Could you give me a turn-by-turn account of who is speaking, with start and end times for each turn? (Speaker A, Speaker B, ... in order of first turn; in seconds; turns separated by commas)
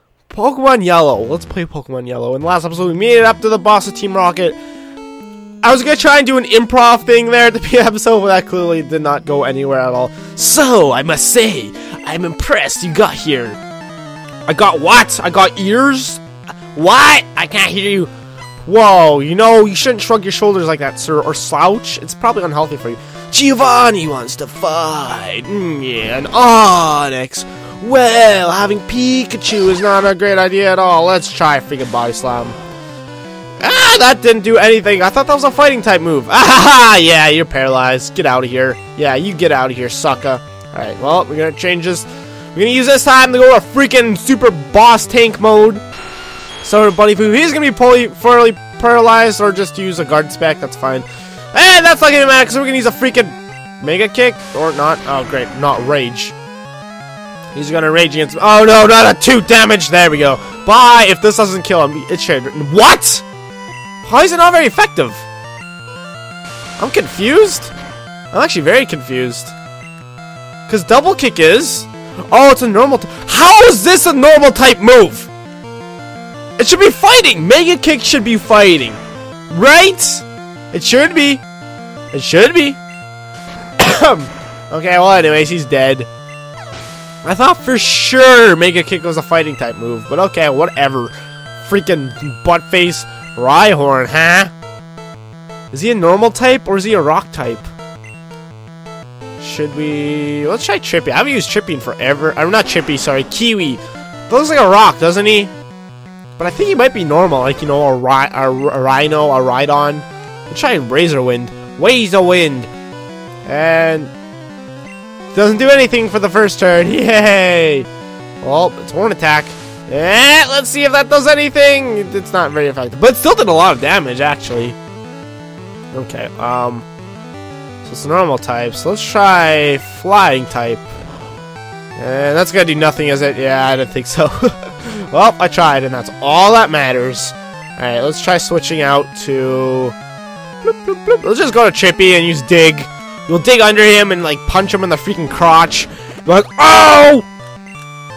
Speaker A: 0.3-4.6, Speaker A: 5.6-13.6, Speaker A: 14.5-16.2, Speaker A: 16.7-18.1, Speaker A: 18.6-32.6, Speaker A: 33.6-45.8, Speaker A: 46.6-56.3, Speaker A: 57.5-63.2, Speaker A: 64.0-65.2, Speaker A: 66.8-67.7, Speaker A: 68.3-69.5, Speaker A: 70.7-75.3, Speaker A: 76.6-81.4, Speaker A: 82.1-82.8, Speaker A: 83.8-86.1, Speaker A: 87.2-94.5, Speaker A: 95.7-97.7, Speaker A: 99.4-105.5, Speaker A: 106.4-112.7, Speaker A: 113.5-114.1, Speaker A: 115.3-117.9, Speaker A: 118.4-124.8, Speaker A: 125.9-126.8, Speaker A: 127.8-130.8, Speaker A: 131.9-139.9, Speaker A: 140.6-147.2